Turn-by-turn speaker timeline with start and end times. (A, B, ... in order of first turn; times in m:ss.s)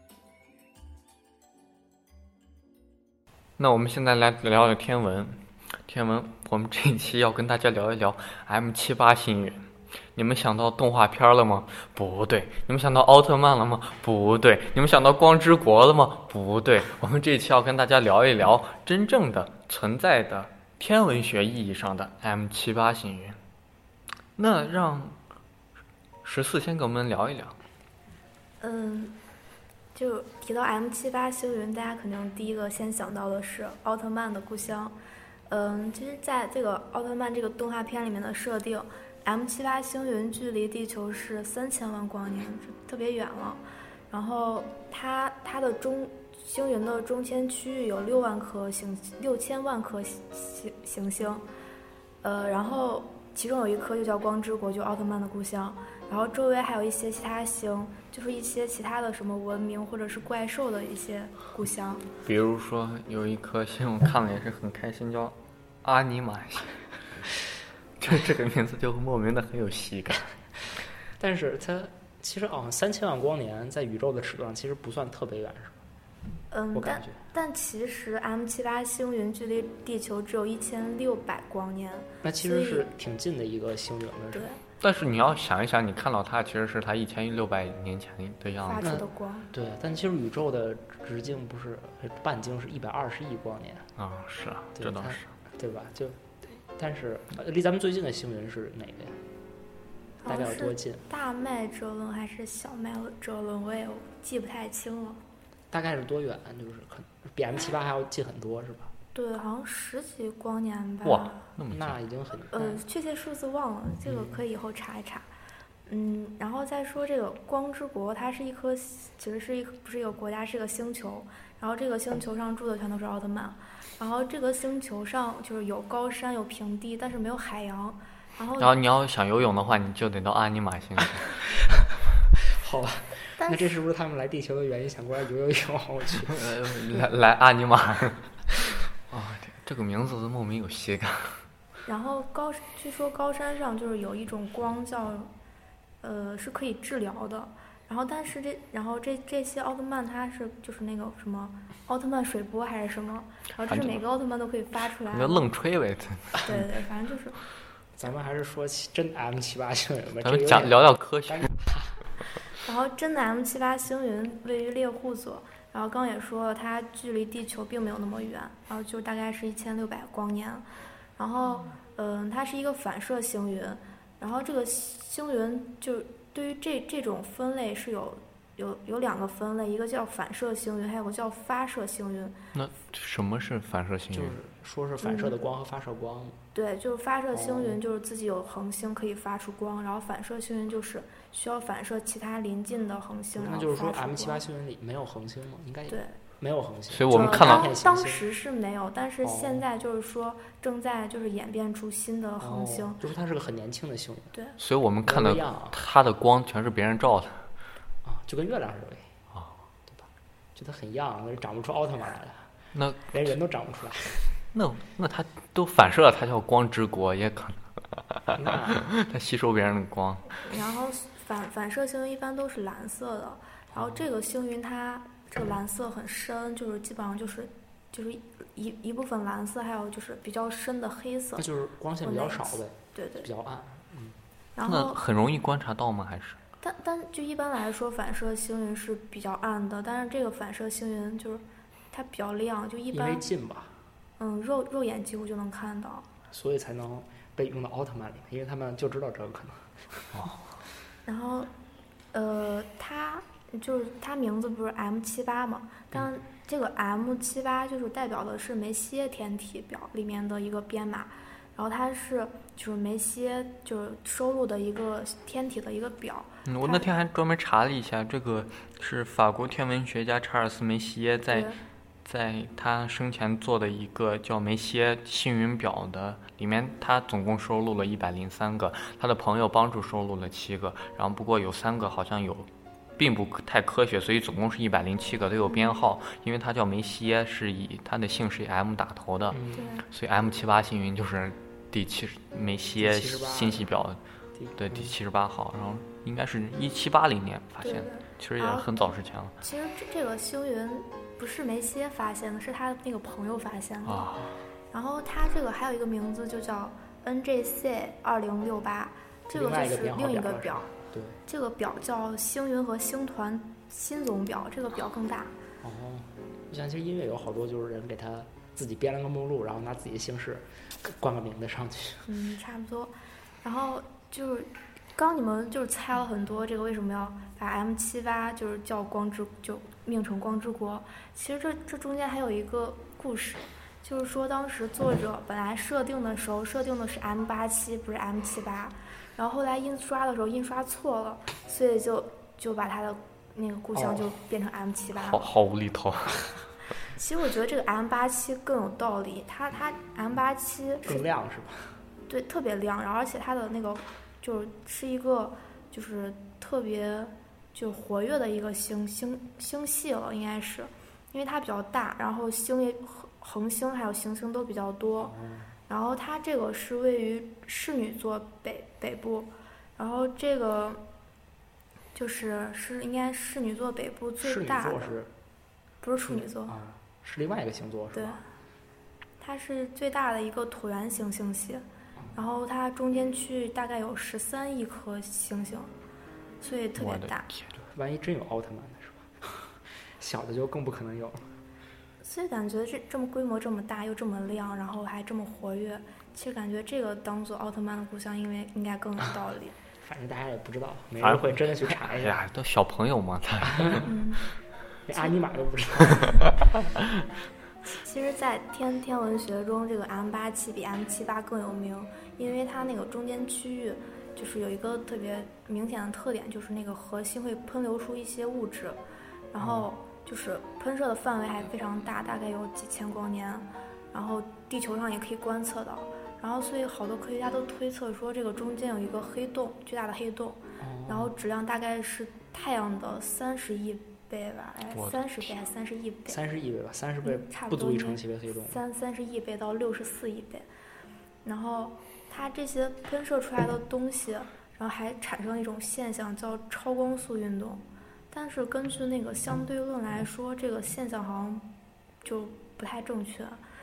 0:03.6-0:09.6 A
0:10.2-0:23.4 A
0:24.4-0:25.2 A
0:26.2-0:27.6 A
0:28.6-0:29.2 B
0:29.9-0:35.0 B
0:35.5-0:51.4 B
0:52.2-1:02.0 B
1:02.2-1:06.8 A
1:08.0-1:10.3 A
1:11.2-1:15.8 C
1:16.5-1:22.9 B
1:16.7-1:17.2 C
1:22.2-1:24.5 C
1:24.3-1:24.6 B
1:24.8-1:29.0 A
1:28.6-1:29.5 B
1:28.8-1:33.9 C
1:34.0-1:35.3 A
1:34.8-1:39.2 C
1:40.2-1:45.2 B
1:40.2-1:41.1 C
1:45.7-1:48.9 C
1:49.1-1:51.5 B
1:51.0-1:52.0 A
1:51.7-1:52.8 C
1:52.5-1:55.3 B
1:54.0-1:54.4 C
1:55.9-2:08.7 B
2:08.6-2:11.4 A
2:12.5-2:16.5 C
2:13.4-2:13.8 B
2:16.3-2:21.4 A
2:21.8-2:25.3 B
2:26.0-2:35.5 B
2:33.7-2:34.0 A
2:35.1-2:36.6 A
2:36.4-2:37.4 B
2:38.0-2:42.2 C
2:40.2-2:41.5 A
2:42.6-3:02.4 B
3:02.5-3:04.4 A
3:04.1-3:06.4 C
3:05.0-3:05.4 B
3:06.5-3:14.4 B
3:07.3-3:07.8 C
3:13.3-3:18.2 C
3:15.9-3:16.2 B
3:16.9-3:17.7 A
3:17.1-3:23.0 B
3:19.2-3:19.7 C
3:22.4-3:24.3 C
3:24.6-3:27.4 A
3:25.0-3:25.8 C
3:28.0-3:29.1 C
3:29.9-3:32.5 C
3:32.7-3:33.2 A
3:33.1-3:34.2 C
3:34.5-3:40.3 A
3:38.4-3:38.8 C
3:40.4-3:51.4 B
3:43.7-3:44.0 C
3:51.4-3:54.2 C
3:52.0-3:53.3 B
3:54.6-3:55.0 B
3:54.6-3:56.4 A
3:56.6-4:03.2 B
4:02.9-4:03.8 C
4:04.2-4:06.1 B
4:06.3-4:10.1 C
4:10.1-4:10.4 A
4:11.0-4:11.5 B
4:12.1-4:26.9 B
4:26.4-4:31.5 A
4:31.3-4:31.6 B
4:32.0-4:54.0 A
4:49.3-4:49.7 C
4:49.5-4:49.9 B
4:52.8-4:53.7 C
4:54.4-4:55.0 C
4:54.6-4:59.3 A
4:57.6-4:58.9 B
4:59.4-5:04.1 B
5:03.8-5:04.4 A
5:04.7-5:10.7 B
5:09.3-5:11.2 C
5:11.2-5:15.4 B
5:15.6-5:22.1 C
5:22.1-5:45.3 B
5:43.7-5:44.1 C
5:45.0-5:46.4 A
5:46.9-5:51.0 B
5:50.8-5:51.7 C
5:52.1-6:05.1 B
6:05.0-6:05.5 C
6:05.7-6:10.8 B
6:11.9-6:14.9 B
6:14.2-6:15.1 C
6:15.8-6:16.6 B
6:16.0-6:18.2 C
6:17.9-6:18.2 B
6:19.2-6:25.7 B
6:26.4-6:27.3 B
6:26.8-6:27.6 A
6:27.7-6:31.3 C
6:32.0-6:39.6 B
6:39.8-6:42.2 C
6:41.0-6:43.9 A
6:43.5-6:43.8 C
6:43.8-6:44.2 B
6:44.9-6:46.3 C
6:47.7-6:58.8 B
6:59.3-7:16.2 B
6:59.4-6:59.7 C
7:10.6-7:11.1 C
7:16.1-7:18.6 C
7:17.0-7:20.5 B
7:21.2-7:31.5 B
7:32.0-7:33.4 B